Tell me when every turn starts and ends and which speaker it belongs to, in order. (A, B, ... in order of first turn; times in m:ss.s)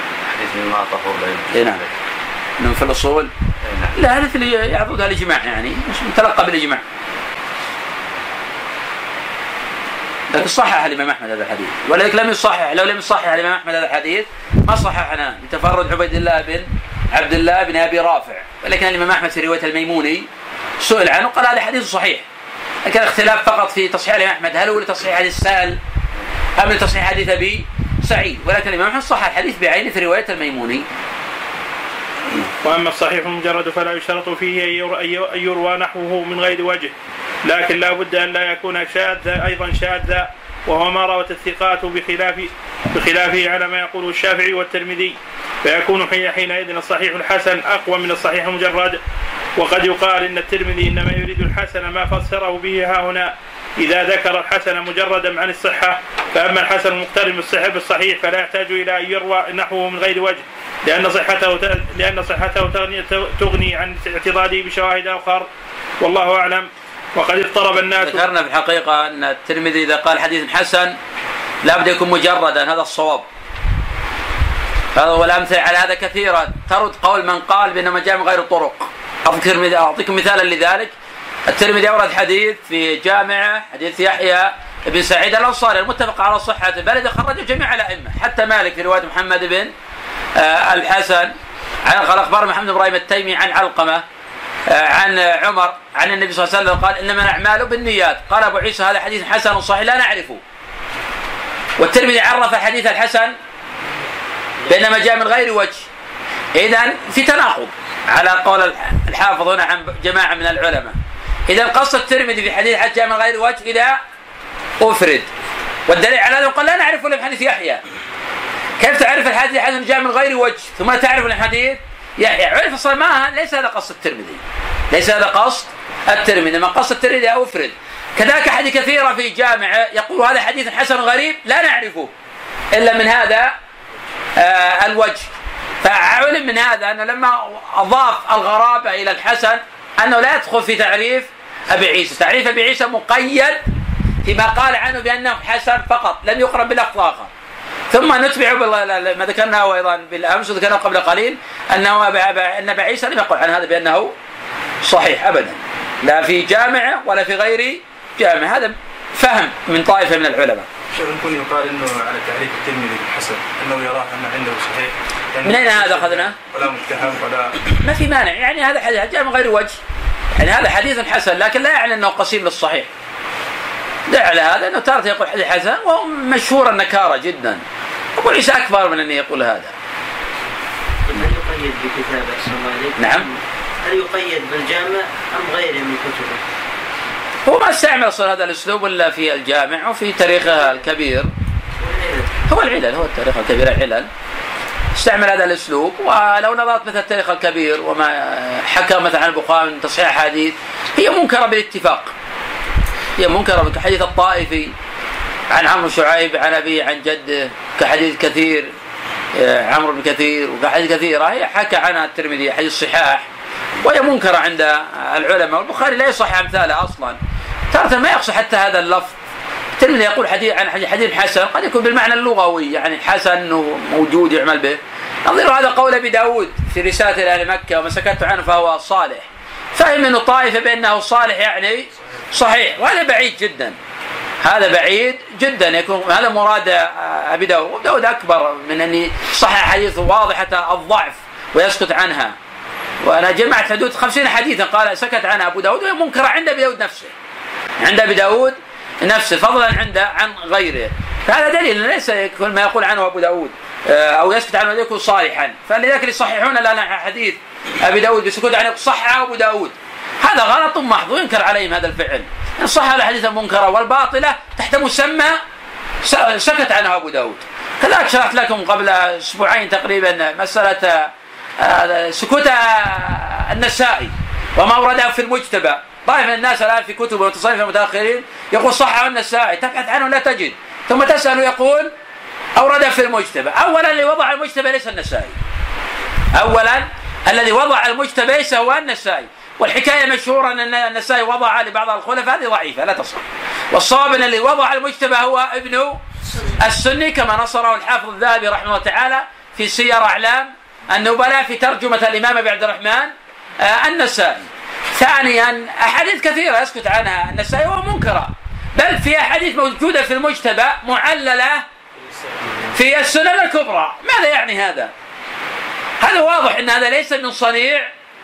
0:00.2-0:01.9 A
0:01.5-0:01.8 B
0:02.6-0:03.3 B
0:03.7-0:04.0 A
0:03.9-0:06.8 B
0:10.3-0:20.3 B
0:20.8-0:22.2 B
0:22.8-0:25.8 B
0:26.6-0:30.8 B
0:32.6-0:36.9 C
0:37.4-0:49.0 C
0:49.6-1:05.5 C
1:06.0-1:08.2 C
1:08.0-1:11.0 B
1:11.6-1:13.3 B
1:14.9-1:20.9 B
1:21.5-1:29.7 B
1:30.4-1:34.0 B
1:34.7-1:40.4 B
1:41.8-1:43.3 B
1:44.7-1:45.9 B
1:46.5-1:51.0 B
1:51.5-1:54.0 B
1:54.8-1:55.3 B
1:55.9-1:57.8 B
1:58.8-2:12.1 B
2:12.7-2:13.5 B
2:14.4-2:15.3 B
2:15.8-2:23.6 B
2:24.2-2:27.3 B
2:27.9-2:34.1 B
2:34.8-2:40.7 B
2:40.9-2:47.6 D
2:45.4-2:46.3 B
2:47.8-2:49.8 B
2:50.3-2:52.9 B
2:54.1-2:57.6 B
2:58.2-2:59.7 B
3:01.1-3:06.4 E
3:03.0-3:03.2 B
3:07.4-3:11.3 B
3:11.8-3:12.4 E
3:12.5-3:14.1 B
3:14.9-3:22.1 B
3:23.2-3:24.7 B
3:25.5-3:28.7 B
3:29.3-3:33.3 B
3:33.8-3:37.2 B
3:37.7-3:39.2 B
3:39.8-3:53.8 B
3:54.4-4:02.4 B
4:03.0-4:07.1 B
4:07.8-4:25.4 B
4:26.0-4:41.9 B
4:42.6-4:45.3 B
4:46.3-4:56.0 B
4:56.6-5:11.6 B
5:12.7-5:14.9 B
5:16.0-5:17.9 B